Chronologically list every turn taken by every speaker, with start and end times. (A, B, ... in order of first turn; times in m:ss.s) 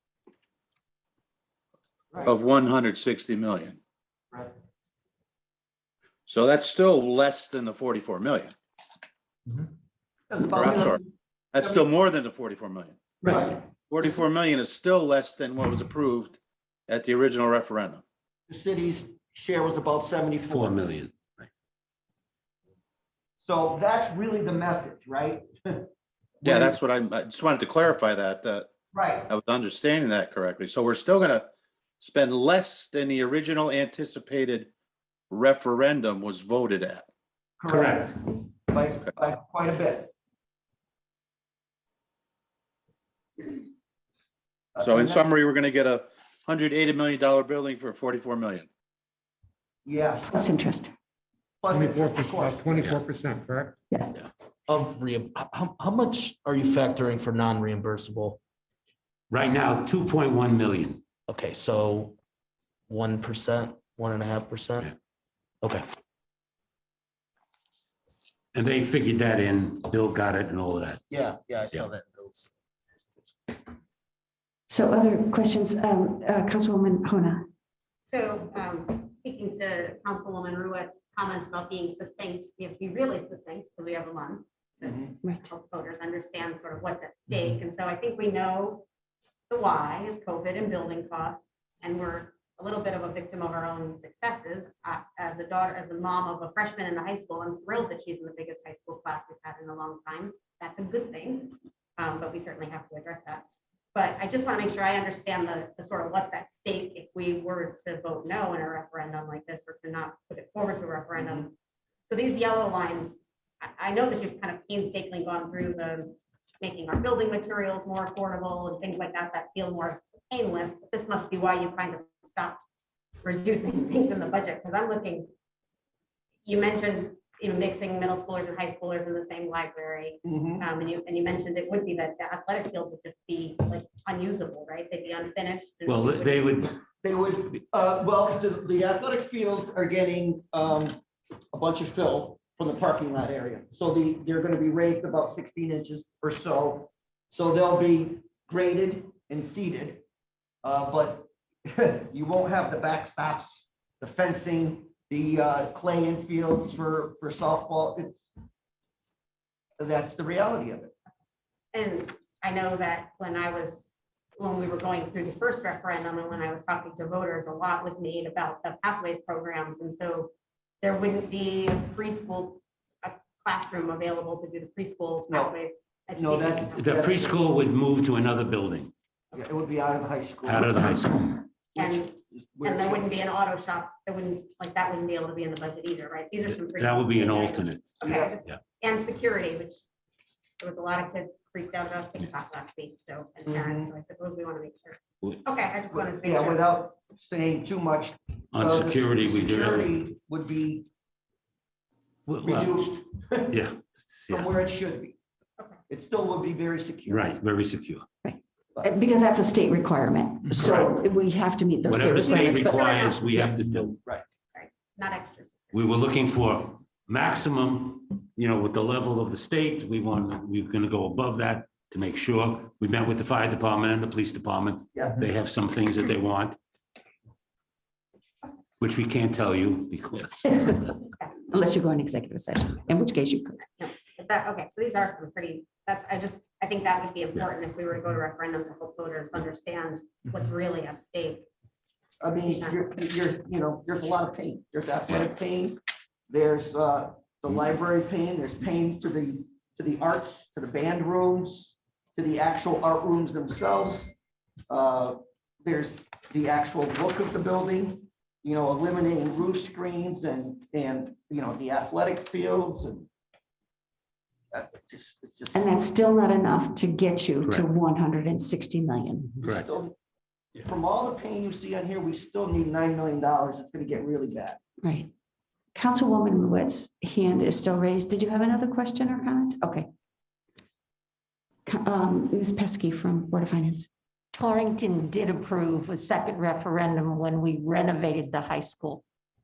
0:02.2-0:03.8 A
0:06.3-0:08.5 A
0:10.3-0:11.1 B
0:10.5-0:11.0 A
0:11.5-0:13.0 A
0:13.2-0:13.6 B
0:13.9-0:18.0 A
0:18.5-0:20.8 B
0:20.5-0:21.5 C
0:23.4-0:25.9 B
0:26.4-0:26.7 B
0:26.4-0:28.7 A
0:28.9-0:29.3 B
0:29.3-0:31.5 A
0:32.0-0:34.7 A
0:35.3-0:37.0 A
0:37.6-0:40.1 B
0:37.7-0:38.1 C
0:43.4-0:43.6 B
0:44.7-0:45.2 B
0:44.8-0:48.7 A
0:49.8-0:50.3 B
0:50.2-0:50.9 D
0:51.6-0:53.0 B
0:51.7-0:53.8 E
0:54.7-0:58.4 F
0:59.3-1:01.0 C
1:01.3-1:02.2 F
1:02.9-1:04.9 F
1:05.6-1:05.9 F
1:08.5-1:11.0 C
1:11.1-1:12.5 F
1:14.7-1:17.4 D
1:18.0-1:28.8 G
1:24.8-1:25.1 B
1:25.2-1:25.5 D
1:29.5-1:51.5 G
1:52.0-2:02.6 G
2:03.2-2:05.3 G
2:06.4-2:16.4 G
2:10.2-2:10.6 B
2:15.8-2:16.8 C
2:17.0-2:21.0 B
2:21.5-2:30.0 B
2:30.6-2:38.3 B
2:39.8-2:40.9 B
2:41.7-2:50.3 G
2:50.8-2:56.8 G
2:56.2-2:57.3 B
2:56.8-2:58.9 C
2:59.3-3:00.9 B
3:00.4-3:01.4 C
3:01.7-3:03.2 B
3:01.8-3:09.8 G
3:06.5-3:08.6 C
3:08.0-3:08.3 B
3:10.6-3:16.6 G
3:13.4-3:13.9 B
3:15.9-3:20.9 B
3:18.5-3:20.0 C
3:22.2-3:22.8 C
3:22.4-3:23.6 B
3:23.5-3:24.5 C
3:24.3-3:25.2 B
3:25.9-3:27.4 B
3:27.1-3:28.0 C
3:28.2-3:33.9 D
3:30.5-3:30.9 C
3:31.8-3:34.0 C
3:32.2-3:33.3 G
3:34.5-3:35.7 G
3:35.7-3:46.6 C
3:44.9-3:45.2 B
3:48.8-3:51.0 C
3:51.5-3:53.6 D
3:53.6-4:01.5 G
4:02.2-4:14.1 B
4:02.3-4:02.8 G
4:14.7-4:23.1 B
4:24.5-4:25.7 B
4:25.5-4:29.4 D
4:29.4-4:29.7 C
4:29.4-4:30.0 B
4:30.6-4:34.6 B
4:34.8-4:35.1 D
4:35.7-4:39.9 D
4:41.6-4:43.9 D
4:44.4-4:49.0 H